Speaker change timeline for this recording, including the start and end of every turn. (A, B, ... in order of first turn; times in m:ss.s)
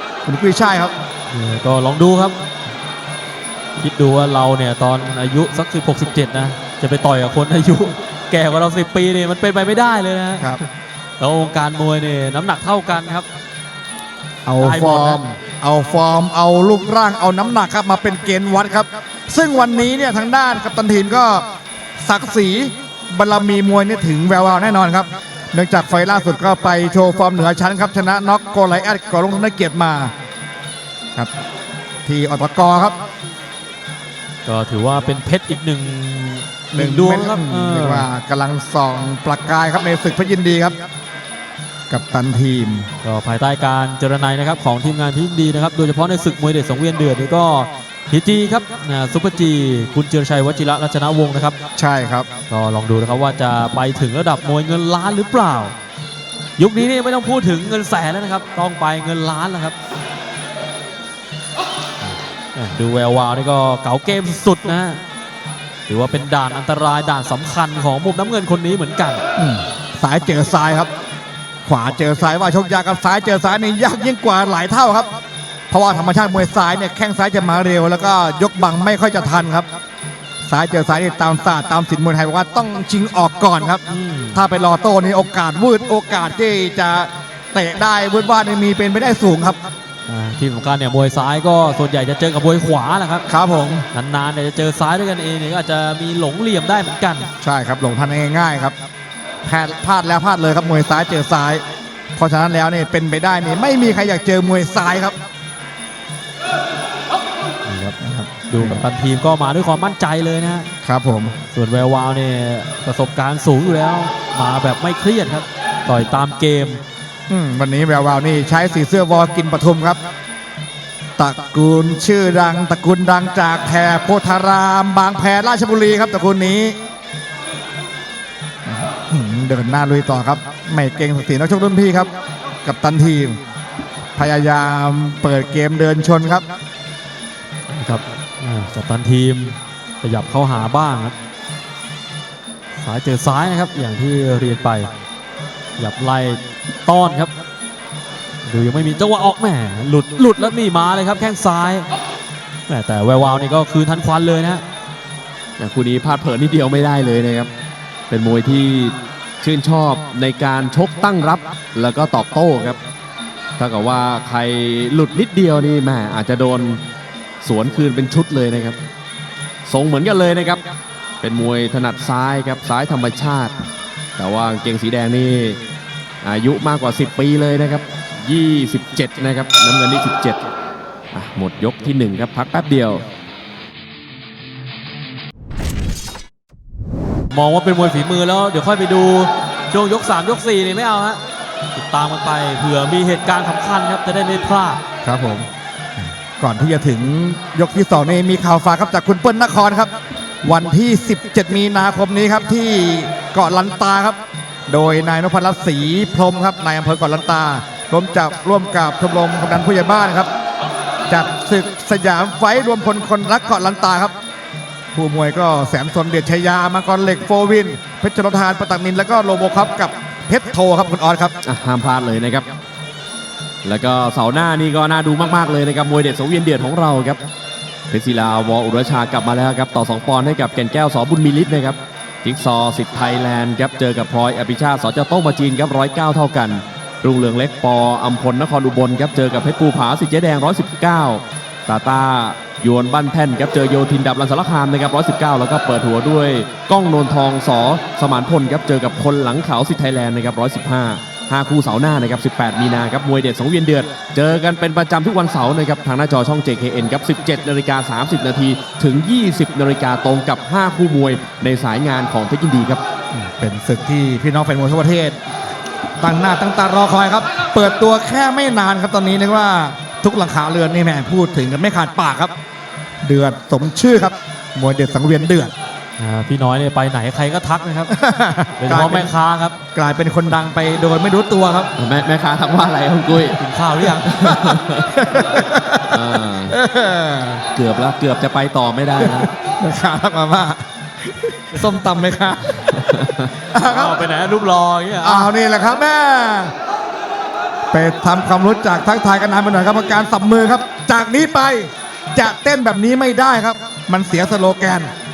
0:00.2-0:00.9 A
0:01.3-0:02.4 B
0:03.8-0:10.5 B
0:11.2-0:13.3 B
0:14.4-0:21.4 A
0:14.6-0:15.2 B
0:22.0-0:30.1 A
0:32.0-0:33.0 A
0:34.4-0:38.1 B
0:36.7-0:40.8 A
0:41.9-0:42.9 A
0:43.0-0:51.6 B
0:51.8-0:52.3 A
0:52.5-0:55.7 B
0:56.6-0:59.7 B
1:02.5-1:05.0 B
1:05.9-1:09.2 B
1:09.4-1:10.9 A
1:11.6-1:15.1 A
1:15.7-1:19.7 A
1:20.4-1:23.8 A
1:23.9-1:24.4 B
1:24.3-1:29.6 A
1:30.1-1:33.2 B
1:33.3-1:33.8 A
1:33.9-1:37.3 B
1:37.4-1:38.8 A
1:39.4-1:41.6 A
1:42.2-1:45.2 A
1:47.6-1:48.0 B
1:48.0-1:48.8 A
1:48.5-1:50.7 B
1:50.8-1:51.3 A
1:51.5-1:56.8 B
1:57.3-2:00.0 A
2:01.2-2:06.8 A
2:08.6-2:12.1 A
2:12.6-2:13.4 A
2:14.2-2:16.5 A
2:17.7-2:21.2 B
2:22.8-2:24.9 B
2:25.8-2:27.3 B
2:28.4-2:31.9 B
2:32.7-2:34.6 B
2:35.6-2:37.5 C
2:38.1-2:42.8 C
2:43.6-2:46.8 C
2:47.4-2:48.8 C
2:49.7-2:50.6 C
2:51.2-2:53.5 C
2:54.2-2:55.6 C
2:56.2-3:00.4 C
3:01.1-3:03.0 C
3:07.3-3:11.2 B
3:11.7-3:14.8 B
3:15.0-3:15.5 A
3:16.4-3:19.9 A
3:20.4-3:30.3 A
3:31.1-3:34.2 A
3:34.9-3:41.3 A
3:41.4-3:42.5 C
3:43.6-3:47.2 C
3:47.9-4:22.8 C
4:23.1-4:25.2 A
4:26.0-4:32.3 A
4:33.0-4:35.5 A
4:36.0-4:37.9 B
4:37.9-4:39.1 A
4:38.6-4:39.5 B
4:39.7-4:41.7 A
4:41.8-4:43.4 C
4:43.2-4:44.1 B
4:44.0-4:44.9 C
4:44.1-4:47.4 A
4:45.9-4:46.6 C
4:47.5-4:49.3 C
4:49.0-4:52.8 A
4:52.8-4:53.3 C
4:53.5-4:54.0 A
4:53.6-4:55.3 B
4:55.0-4:56.5 A
4:57.7-5:04.9 A